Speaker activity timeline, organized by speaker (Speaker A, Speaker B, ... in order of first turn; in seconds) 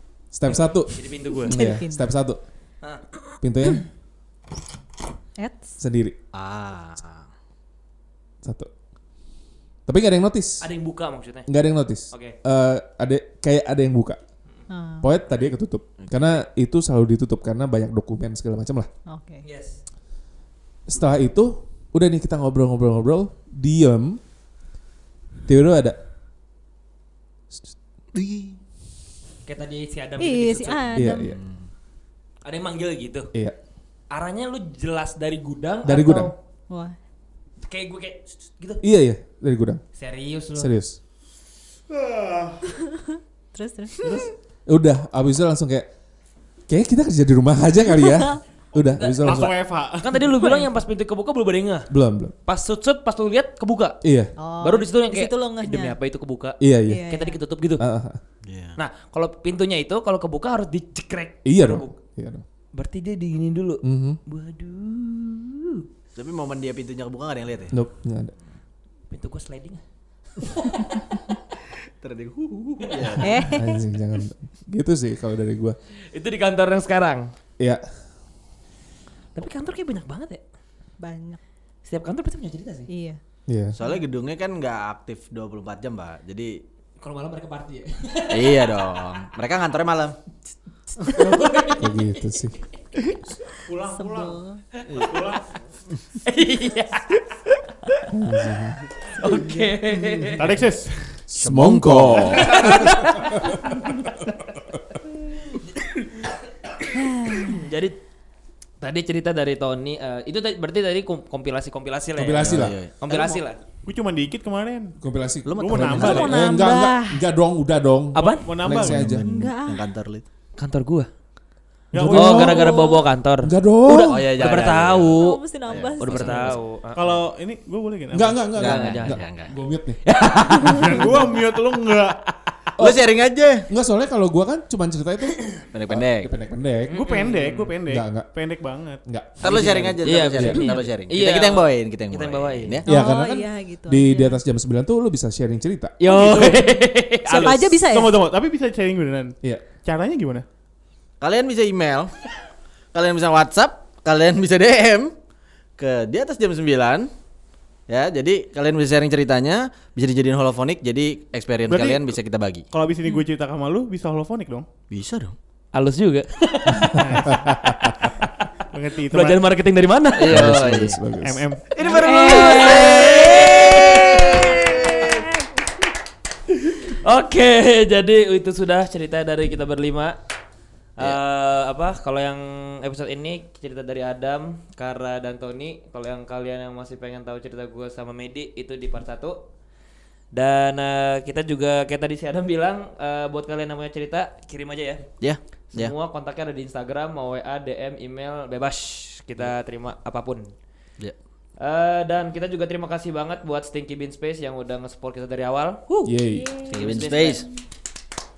Speaker A: 0.3-2.4, 3.4-3.9, 5.8-6.2, 8.4-8.7, 9.9-10.7, 11.4-14.2, 15.0-18.9, 20.9-24.2, 25.5-26.0, 30.9-31.4, 35.8-36.3, 38.8-39.8, 40.5-41.0, 44.7-45.9, 46.7-49.5, 51.9-52.3, 54.0-54.3, 56.6-57.0, 57.8-58.2, 61.4-62.4, 63.8-64.2, 67.7-68.3, 73.4-75.8, 83.5-83.8, 91.8-92.6, 98.1-98.8, 101.3-102.8, 112.2-112.8, 115.0-119.2, 121.9-122.8, 123.4-124.3, 128.1-130.0, 132.8-137.0, 137.9-138.3, 139.1-140.8, 142.8-146.0, 166.7-168.1, 170.2-171.4, 206.0-206.5
Speaker B: 0.5-1.6, 10.6-11.5, 19.4-19.8, 29.4-31.0, 32.4-33.3, 34.1-36.3, 37.6-38.8, 40.0-40.7, 49.0-51.9, 52.5-54.0, 54.6-57.8, 58.8-61.9, 62.7-65.9, 69.1-69.8, 70.4-71.2, 72.8-73.3, 76.1-77.3, 79.3-80.4, 81.8-82.9, 87.0-88.9, 91.0-92.0, 96.2-97.2, 99.1-100.5, 102.2-104.3, 105.6-106.3, 107.3-108.0, 108.8-113.6, 118.1-118.5, 120.6-121.1, 122.1-127.0, 128.6-129.2, 130.0-132.3, 136.9-137.7, 139.5-142.8, 146.0-147.7, 165.7-167.3, 169.1-170.5, 171.8-175.2, 176.5-180.2, 181.0-189.4, 190.3-195.0, 195.7-200.5, 201.6-207.4
Speaker C: 1.5-2.0, 5.4-5.8, 14.7-15.1, 19.1-19.4, 30.2-31.3, 36.7-37.0, 42.8-44.2, 50.2-50.7, 54.4-56.0, 56.9-57.4, 73.2-73.8, 81.0-81.4, 82.9-83.2, 93.8-94.6, 106.9-107.6, 115.9-117.2, 119.2-119.8, 122.3-123.1, 125.1-126.6, 142.8-144.4, 147.2-148.2, 171.8-175.2, 206.2-207.0
Speaker D: 6.3-7.2, 28.1-28.6, 31.3-31.6, 58.4-58.8, 66.1-67.7, 72.0-73.5, 83.7-86.6, 88.3-90.2, 94.9-95.2, 99.2-100.3, 101.3-103.0, 112.4-113.4, 115.4-116.4, 118.7-120.2, 124.0-127.1, 128.5-129.5, 132.8-133.7, 135.7-136.3, 139.4-142.9, 151.2-152.2, 152.9-155.1, 155.8-157.1, 157.9-162.7, 164.9-165.3, 170.1-171.0, 171.7-175.3, 195.2-195.9, 206.6-207.5
Speaker E: 41.9-42.8, 49.2-50.2, 93.6-94.4, 94.9-95.4, 100.4-101.2, 113.8-114.9, 115.6-116.4, 118.4-119.0, 121.9-122.5, 126.9-128.5, 130.6-132.2, 136.9-139.0, 146.1-150.4, 161.7-162.2, 162.7-164.7, 166.9-167.5, 168.7-169.5, 171.2-172.1